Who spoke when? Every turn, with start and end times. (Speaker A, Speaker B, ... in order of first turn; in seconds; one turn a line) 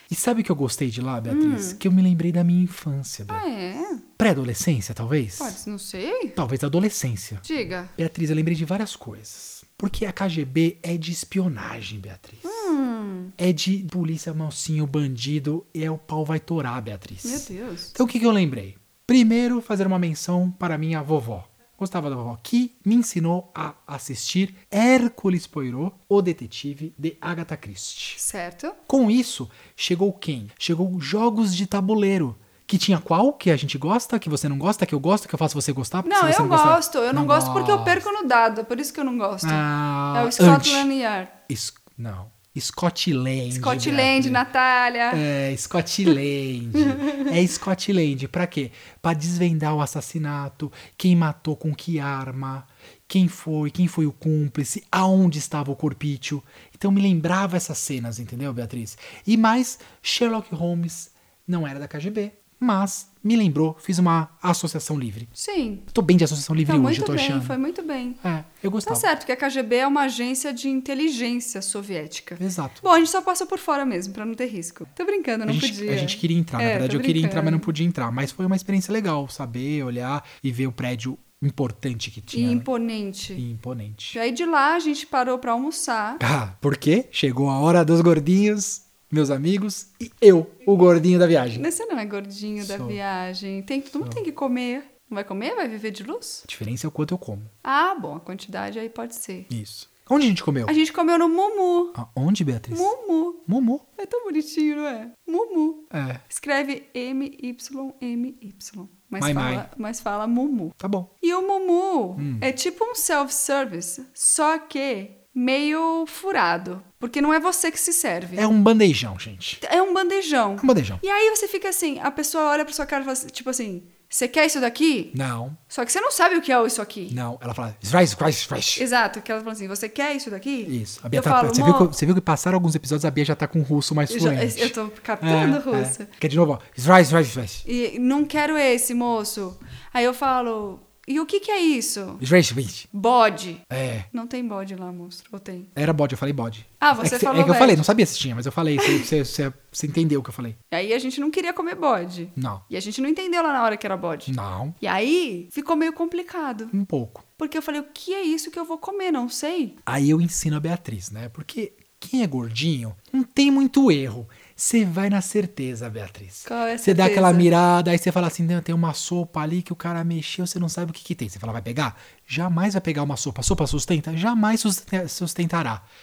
Speaker A: 0.1-3.4
Speaker B: 1.3-1.8
Speaker B: 3.3-4.0
Speaker A: 4.2-5.6
Speaker B: 5.4-6.4
Speaker A: 6.3-12.6
Speaker B: 7.4-7.9
Speaker B: 12.4-13.3
Speaker A: 13.4-28.2
Speaker B: 17.2-17.9
Speaker B: 28.2-28.8
Speaker A: 28.9-38.0
Speaker B: 36.0-41.3
Speaker A: 39.4-40.9
Speaker A: 41.5-44.5
Speaker B: 43.5-45.2
Speaker A: 45.1-65.3
Speaker B: 46.7-47.3
Speaker B: 65.3-65.9
Speaker A: 65.9-67.6
Speaker B: 66.7-68.2
Speaker A: 68.2-69.1
Speaker B: 68.8-77.7
Speaker A: 72.4-72.8
Speaker A: 75.5-82.7
Speaker B: 82.3-83.4
Speaker A: 83.4-84.2
Speaker B: 84.1-86.2
Speaker A: 86.2-91.7
Speaker B: 91.5-96.5
Speaker A: 92.6-93.0
Speaker A: 96.5-97.5
Speaker B: 97.6-99.5
Speaker A: 99.5-100.7
Speaker B: 100.7-102.0
Speaker A: 101.9-102.9
Speaker B: 102.7-103.5
Speaker A: 103.5-103.8
Speaker B: 104.0-118.4
Speaker A: 105.9-106.2
Speaker A: 109.2-109.7
Speaker A: 110.8-111.1
Speaker A: 112.2-112.5
Speaker A: 118.3-119.6
Speaker B: 119.6-125.2
Speaker A: 120.6-121.0
Speaker A: 125.1-125.6
Speaker B: 125.7-127.2
Speaker A: 127.1-128.8
Speaker B: 128.8-131.9
Speaker A: 130.7-137.6
Speaker B: 134.1-136.1
Speaker B: 137.6-142.2
Speaker A: 142.2-142.9
Speaker B: 142.9-145.7
Speaker A: 143.7-144.1
Speaker A: 145.7-150.6
Speaker B: 146.8-147.8
Speaker B: 148.8-149.1
Speaker B: 150.7-156.7
Speaker A: 152.3-152.6
Speaker A: 154.3-154.8
Speaker A: 156.7-157.2
Speaker B: 157.4-159.8
Speaker A: 159.8-175.8
Speaker B: 166.4-167.5